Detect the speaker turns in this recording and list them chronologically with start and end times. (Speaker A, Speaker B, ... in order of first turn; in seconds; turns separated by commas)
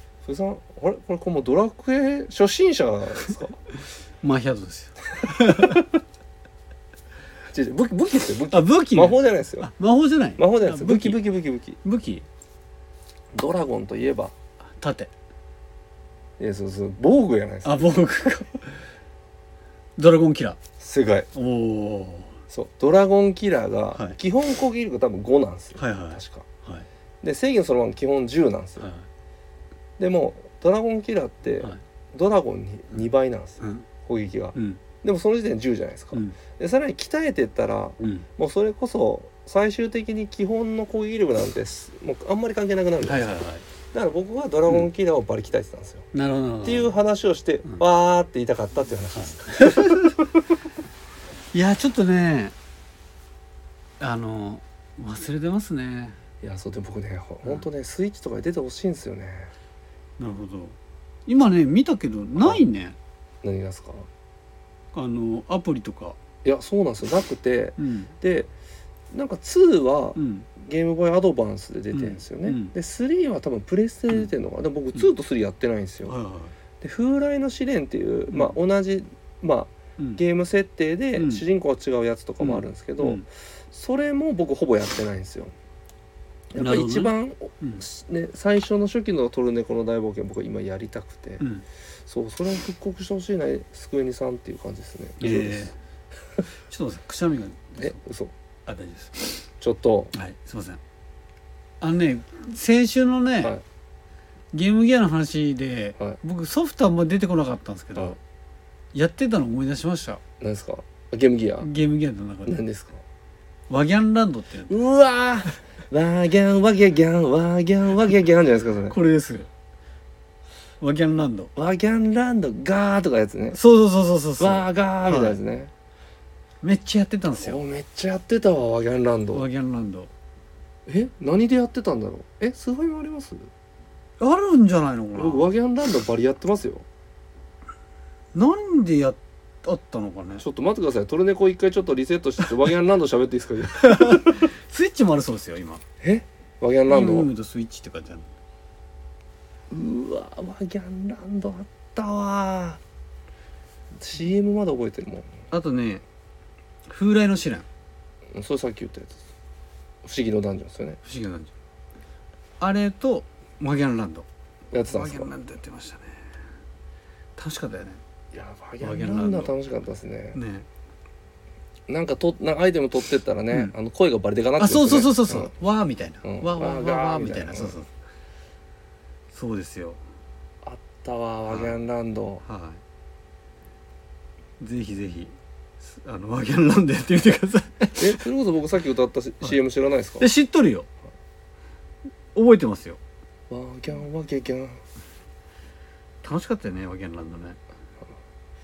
Speaker A: 0.2-3.6, Speaker B: 4.2-5.8, Speaker A: 5.4-5.8, Speaker A: 7.5-9.7, Speaker B: 8.5-11.2, Speaker A: 10.4-11.8, Speaker B: 11.8-12.3, Speaker A: 13.3-14.3, Speaker B: 14.8-15.1, Speaker A: 16.4-18.1, Speaker B: 17.6-18.7, Speaker B: 20.0-20.6, Speaker A: 20.8-21.3, Speaker B: 21.3-22.4, Speaker A: 22.5-26.5, Speaker B: 25.8-26.9, Speaker A: 27.2-28.9, Speaker B: 28.8-29.1, Speaker A: 30.0-43.3, Speaker B: 33.6-33.9, Speaker B: 34.5-34.8, Speaker B: 36.1-36.4, Speaker B: 38.0-38.3, Speaker B: 43.0-43.6, Speaker A: 43.9-46.1, Speaker B: 46.1-46.9, Speaker A: 46.6-50.4, Speaker B: 49.1-50.2, Speaker B: 51.5-52.5, Speaker B: 54.0-56.2, Speaker A: 56.4-59.5, Speaker B: 60.2-63.0, Speaker A: 62.4-62.6, Speaker A: 63.4-64.1, Speaker B: 64.9-66.2, Speaker A: 66.4-68.5, Speaker B: 67.8-68.1, Speaker A: 69.1-76.2, Speaker B: 70.2-70.5, Speaker B: 71.9-72.7, Speaker B: 76.1-76.5, Speaker A: 76.8-85.5, Speaker B: 81.2-81.4, Speaker B: 82.4-83.2, Speaker A: 86.5-91.5, Speaker B: 86.6-87.8, Speaker A: 92.0-95.7, Speaker B: 95.2-95.7, Speaker B: 96.7-98.0, Speaker A: 97.8-98.3, Speaker B: 98.7-99.4, Speaker A: 99.6-100.1, Speaker B: 100.1-100.8, Speaker B: 101.8-103.5, Speaker B: 104.5-108.2, Speaker B: 108.9-110.2, Speaker A: 110.4-111.7, Speaker B: 111.6-112.6, Speaker A: 112.4-113.0, Speaker B: 113.7-114.7, Speaker A: 114.7-119.0, Speaker B: 118.9-119.5, Speaker B: 120.8-121.5, Speaker A: 121.5-123.6, Speaker B: 123.5-125.4, Speaker A: 124.4-125.7, Speaker B: 126.6-127.6, Speaker A: 127.3-129.4, Speaker B: 129.3-130.1, Speaker A: 130.9-133.5, Speaker B: 134.2-135.4, Speaker A: 135.1-136.8, Speaker B: 138.3-140.4, Speaker A: 140.4-144.5, Speaker B: 143.8-145.8, Speaker A: 146.0-147.3, Speaker B: 146.9-148.2, Speaker A: 149.7-152.8, Speaker A: 153.9-155.4, Speaker B: 155.5-156.0, Speaker B: 156.9-157.7, Speaker A: 158.3-159.2, Speaker A: 160.0-161.0, Speaker B: 161.0-161.5, Speaker B: 162.6-164.2, Speaker A: 164.7-165.3, Speaker B: 164.8-166.2, Speaker B: 167.4-168.0, Speaker A: 168.3-170.4, Speaker B: 168.8-169.5, Speaker B: 170.3-170.7, Speaker A: 171.9-175.5, Speaker B: 174.6-177.9, Speaker A: 176.2-177.8, Speaker B: 179.3-180.0, Speaker A: 180.6-182.4, Speaker B: 181.5-181.8, Speaker B: 182.4-182.8, Speaker B: 184.6-188.2, Speaker A: 188.0-190.3, Speaker B: 190.2-190.9, Speaker B: 192.3-193.0, Speaker A: 193.5-194.8, Speaker B: 196.2-197.6